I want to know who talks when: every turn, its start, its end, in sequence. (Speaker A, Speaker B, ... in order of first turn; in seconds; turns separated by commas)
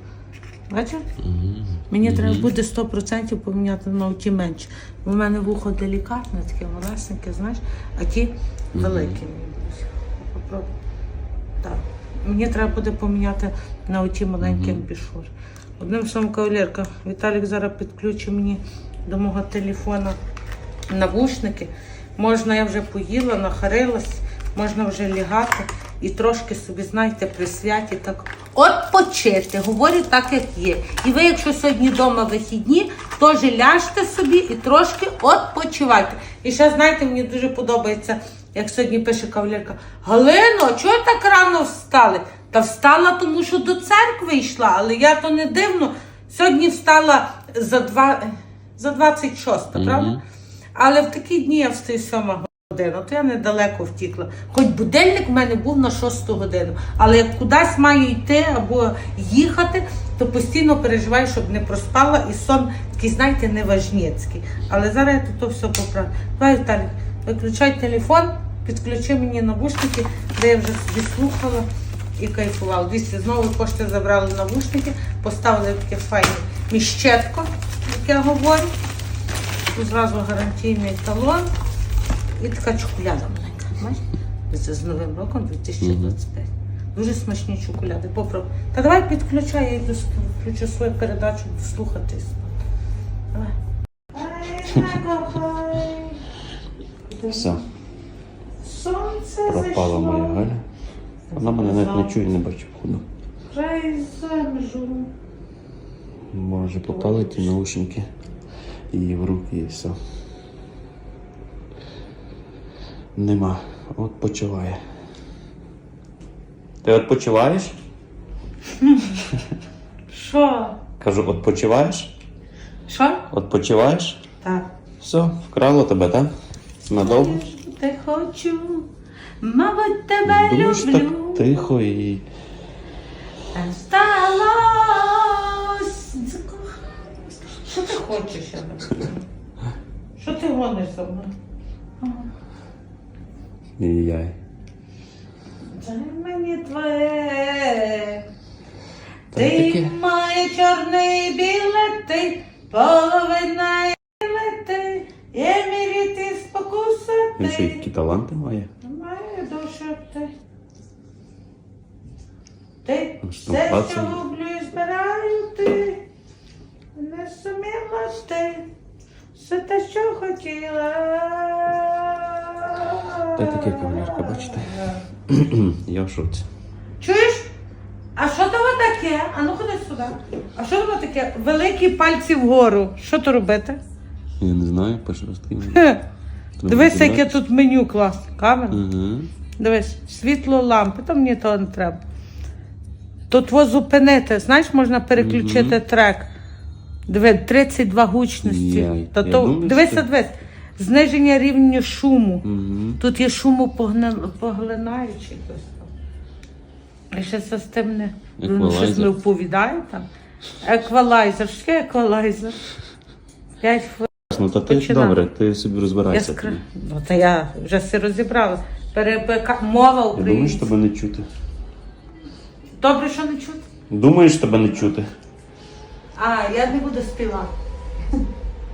Speaker A: 0.7-1.1, Speaker B: 1.2-2.5, Speaker A: 1.9-10.7, Speaker B: 8.7-9.2, Speaker A: 11.6-20.2, Speaker B: 14.4-14.8, Speaker A: 20.9-50.2, Speaker B: 49.7-50.2, Speaker A: 50.7-71.7, Speaker A: 72.2-78.7, Speaker A: 79.7-81.5, Speaker A: 82.4-92.5, Speaker B: 85.8-86.1, Speaker A: 94.1-96.2, Speaker A: 97.1-97.6, Speaker B: 97.3-97.6, Speaker A: 98.6-100.4, Speaker B: 99.4-100.6, Speaker A: 101.3-102.2, Speaker B: 101.3-103.0, Speaker A: 103.5-105.1, Speaker B: 106.3-108.1, Speaker A: 106.8-107.5, Speaker B: 108.9-110.0, Speaker B: 113.2-114.8, Speaker B: 116.8-117.7, Speaker A: 118.8-119.2, Speaker A: 120.1-120.8, Speaker B: 121.0-122.1, Speaker A: 122.9-123.2, Speaker B: 123.3-124.2, Speaker A: 124.4-124.7, Speaker B: 125.0-126.3, Speaker B: 126.8-127.4, Speaker A: 126.9-128.9, Speaker A: 129.4-131.4, Speaker B: 130.2-132.2, Speaker A: 133.5-139.2, Speaker A: 140.2-141.3, Speaker B: 143.8-144.3, Speaker A: 145.7-148.2, Speaker B: 149.3-149.9, Speaker A: 149.3-157.8, Speaker B: 157.4-158.7, Speaker A: 158.8-160.3, Speaker A: 162.8-166.0, Speaker B: 163.2-164.2, Speaker A: 166.9-168.7, Speaker A: 169.3-175.0, Speaker B: 173.3-176.4, Speaker A: 177.0-177.5, Speaker A: 178.2-183.8, Speaker B: 184.4-185.8, Speaker A: 185.7-186.0, Speaker B: 186.6-187.3, Speaker A: 186.7-188.8, Speaker B: 188.7-189.3, Speaker A: 189.6-192.0, Speaker A: 193.3-196.3, Speaker B: 195.1-195.8, Speaker A: 197.1-202.4, Speaker B: 198.4-200.0, Speaker B: 202.4-203.0, Speaker A: 203.0-205.9, Speaker A: 207.1-210.1, Speaker B: 208.4-209.1, Speaker A: 210.6-212.6, Speaker A: 213.6-215.2, Speaker B: 214.3-216.6, Speaker A: 216.1-220.7, Speaker B: 220.1-221.3, Speaker A: 222.8-223.6, Speaker B: 223.9-225.1, Speaker A: 226.1-227.5